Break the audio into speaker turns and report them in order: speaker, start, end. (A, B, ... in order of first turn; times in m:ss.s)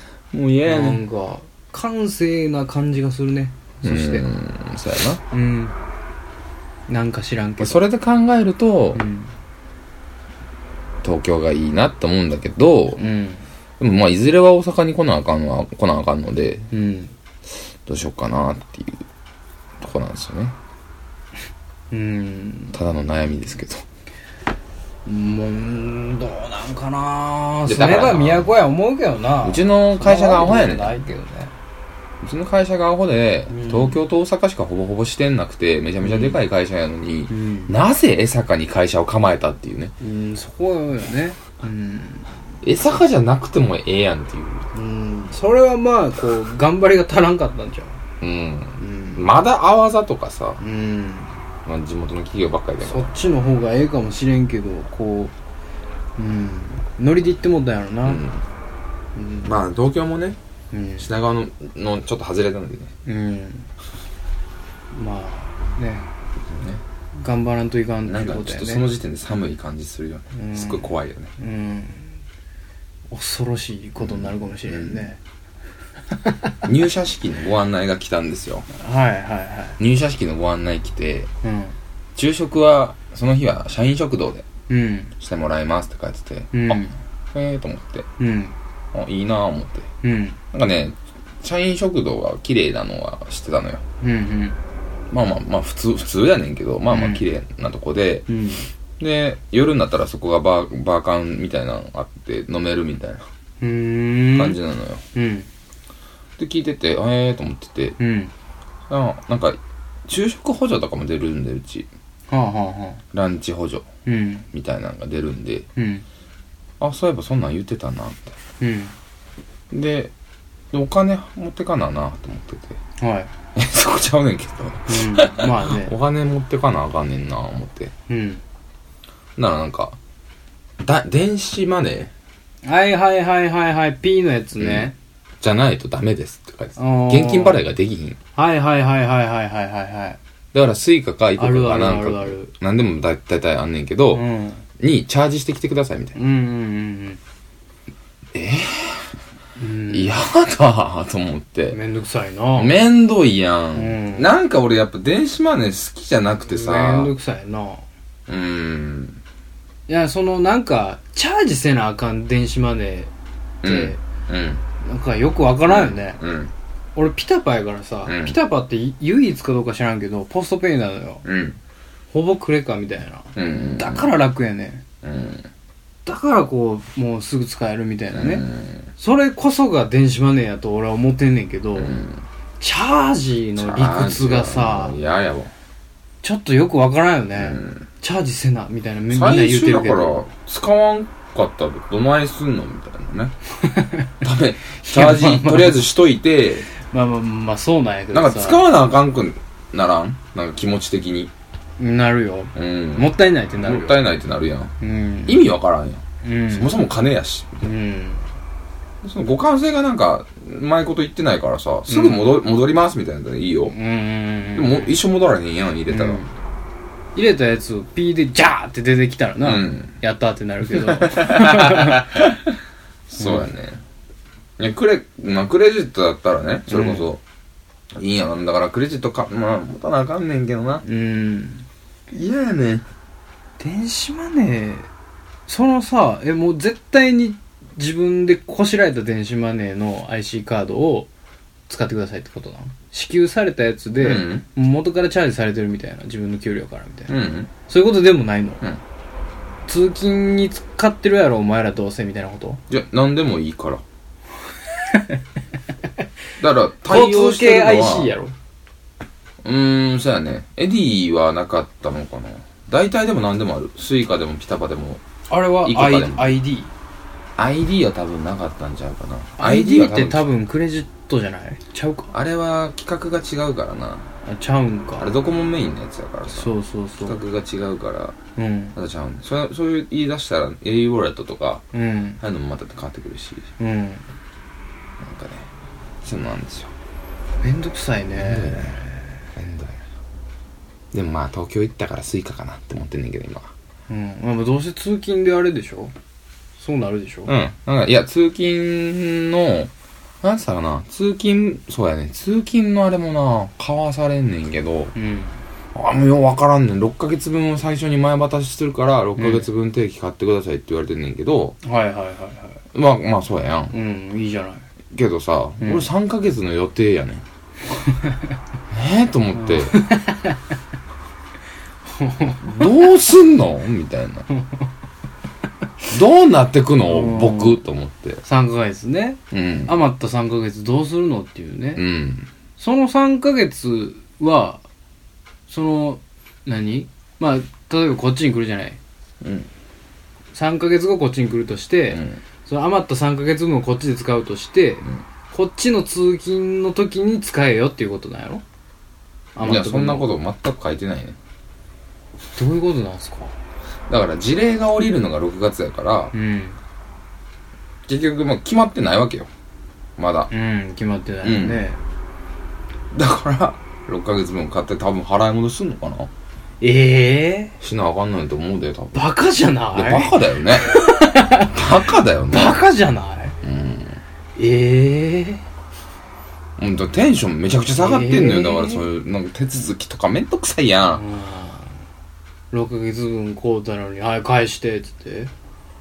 0:00.3-0:01.0 A
0:00.6-0:04.3 B
0:03.8-0:05.2 A
0:05.3-0:05.8 B
0:06.9-0:07.8 B
0:07.6-0:09.0 A
0:08.9-0:09.3 B
0:11.0-0:13.0 A
0:13.0-0:13.4 B
0:13.8-0:16.7 A
0:16.7-0:17.1 B
0:17.8-0:19.0 A
0:19.8-0:20.6 A
0:21.9-0:22.8 B
0:22.7-0:23.8 A
0:25.0-0:31.5 B
0:27.6-0:28.5 A
0:29.4-0:31.0 A
0:32.2-0:39.9 A
0:33.5-0:34.0 B
0:36.0-0:36.4 B
0:37.3-0:37.7 B
0:40.0-0:42.3 B
0:42.6-0:44.7 A
0:44.7-0:48.0 B
0:48.2-0:50.6 A
0:48.8-0:49.3 B
0:50.6-0:51.4 B
0:51.6-0:53.1 A
0:52.8-0:55.3 B
0:56.2-0:58.2 B
0:58.0-0:58.4 A
0:59.1-0:59.5 B
0:59.4-1:00.4 A
1:00.7-1:01.1 B
1:01.0-1:02.9 A
1:03.0-1:03.7 B
1:04.9-1:06.1 B
1:06.5-1:06.8 A
1:07.2-1:08.8 B
1:08.0-1:11.3 A
1:10.3-1:12.2 B
1:13.1-1:15.2 B
1:14.0-1:15.1 A
1:16.2-1:16.5 B
1:16.6-1:18.6 A
1:18.7-1:19.8 B
1:19.8-1:21.3 A
1:21.4-1:21.8 B
1:22.2-1:24.5 A
1:24.7-1:25.1 B
1:25.2-1:26.8 A
1:26.5-1:27.0 B
1:27.3-1:28.0 A
1:28.2-1:28.5 B
1:28.9-1:29.9 A
1:30.0-1:30.4 B
1:30.5-1:33.8 A
1:34.0-1:34.6 B
1:35.1-1:38.2 A
1:36.9-1:37.2 B
1:38.3-1:38.7 B
1:39.0-1:43.2 A
1:43.6-1:44.6 B
1:44.3-1:45.0 A
1:45.1-1:45.5 B
1:46.4-1:48.0 A
1:48.0-1:48.3 B
1:48.9-1:51.9 A
1:52.3-1:53.0 B
1:53.1-1:53.8 A
1:54.0-1:54.4 B
1:54.5-1:55.6 A
1:55.8-1:56.0 B
1:56.8-1:58.3 A
1:58.6-1:58.9 B
1:59.7-2:00.1 A
2:00.7-2:02.8 A
2:03.0-2:03.3 B
2:03.5-2:07.9 A
2:04.9-2:05.9 B
2:08.1-2:08.4 B
2:09.4-2:10.0 A
2:10.8-2:12.1 A
2:12.6-2:14.9 B
2:14.6-2:18.2 A
2:16.8-2:17.6 B
2:18.4-2:20.2 B
2:20.5-2:24.2 A
2:21.4-2:22.5 B
2:24.1-2:24.6 B
2:24.8-2:26.2 A
2:26.1-2:27.2 B
2:28.3-2:29.1 A
2:29.6-2:30.2 B
2:29.9-2:31.8 A
2:31.7-2:32.7 B
2:32.6-2:37.1 A
2:33.7-2:34.3 B
2:36.5-2:37.8 B
2:38.3-2:39.2 A
2:39.9-2:43.1 B
2:43.6-2:44.0 B
2:43.6-2:44.6 A
2:44.8-2:46.2 B
2:45.7-2:46.5 A
2:47.0-2:51.2 B
2:48.0-2:48.4 A
2:51.2-2:51.6 A
2:52.1-2:54.8 B
2:53.3-2:54.1 A
2:55.0-2:55.5 A
2:56.0-2:58.4 B
2:58.1-2:58.9 A
2:59.0-3:02.0 B
3:01.8-3:02.2 A
3:02.6-3:05.0 B
3:03.6-3:05.5 A
3:06.2-3:10.2 B
3:07.4-3:07.8 A
3:09.1-3:13.3 A
3:13.6-3:14.2 B
3:14.2-3:16.7 A
3:14.8-3:15.8 B
3:16.8-3:18.6 B
3:18.1-3:21.3 A
3:21.8-3:24.0 B
3:22.5-3:24.7 A
3:24.8-3:25.5 B
3:25.2-3:27.6 A
3:26.2-3:26.8 B
3:27.6-3:28.2 B
3:29.0-3:33.7 A
3:31.9-3:32.4 B
3:33.7-3:35.0 B
3:34.5-3:36.2 A
3:35.9-3:36.3 B
3:37.1-3:42.3 B
3:39.4-3:39.9 A
3:40.7-3:42.6 A
3:43.1-3:43.8 A
3:43.2-3:43.5 B
3:44.6-3:47.2 A
3:46.7-3:47.1 B
3:47.9-3:50.8 A
3:50.8-3:51.7 B
3:52.1-3:52.8 A
3:53.6-3:54.9 B
3:55.5-4:01.1 B
4:01.7-4:08.6 B
4:04.0-4:04.4 A
4:07.1-4:07.5 A
4:09.7-4:12.6 B
4:12.7-4:13.8 A
4:14.8-4:15.2 B
4:16.4-4:18.1 A
4:16.8-4:18.3 B
4:19.4-4:25.0 A
4:25.3-4:26.7 B
4:25.6-4:26.4 A
4:27.4-4:30.3 A
4:29.4-4:32.1 B
4:32.1-4:34.0 A
4:34.2-4:35.1 B
4:35.0-4:36.5 A
4:36.3-4:37.2 B
4:37.0-4:38.2 A
4:38.4-4:38.8 B
4:38.7-4:41.6 A
4:41.7-4:42.2 B
4:42.2-4:43.5 A
4:43.6-4:44.0 B
4:45.0-4:45.5 A
4:46.0-4:46.7 A
4:47.4-4:49.2 B
4:48.2-4:48.8 A
4:49.4-4:49.8 A
4:50.9-4:53.5 A
4:53.9-4:55.9 B
4:56.6-4:57.3 B
4:57.3-4:59.7 A
5:00.2-5:04.9 A
5:04.9-5:05.4 B
5:05.7-5:11.6 A
5:09.2-5:09.5 B
5:11.6-5:12.6 B
5:12.7-5:13.7 A
5:13.7-5:14.6 B
5:14.9-5:17.2 A
5:15.6-5:15.9 B
5:17.9-5:18.2 B
5:18.7-5:19.8 A
5:19.3-5:20.4 B
5:21.9-5:22.8 B
5:22.4-5:24.3 A
5:24.3-5:24.6 B
5:25.9-5:28.2 A
5:26.8-5:27.6 B
5:28.2-5:31.8 B
5:29.3-5:29.8 A
5:31.8-5:32.3 A
5:32.6-5:34.6 B
5:35.5-5:38.8 B
5:39.2-5:39.5 A
5:40.3-5:48.4 B
5:41.9-5:42.2 A
5:49.3-5:50.1 B
5:49.4-5:51.2 A
5:52.4-5:53.3 B
5:53.9-5:56.1 A
5:56.1-5:56.6 B
5:57.9-5:59.3 A
6:00.0-6:00.3 A
6:00.3-6:01.8 B
6:01.2-6:01.6 A
6:02.9-6:06.1 A
6:06.6-6:07.6 B
6:07.6-6:09.1 A
6:08.9-6:11.7 B
6:09.7-6:10.8 A
6:11.4-6:12.6 A
6:12.3-6:13.4 B
6:13.4-6:14.0 A
6:14.4-6:15.4 B
6:16.6-6:21.0 A
6:17.8-6:18.8 B
6:20.8-6:21.8 B
6:22.5-6:25.3 B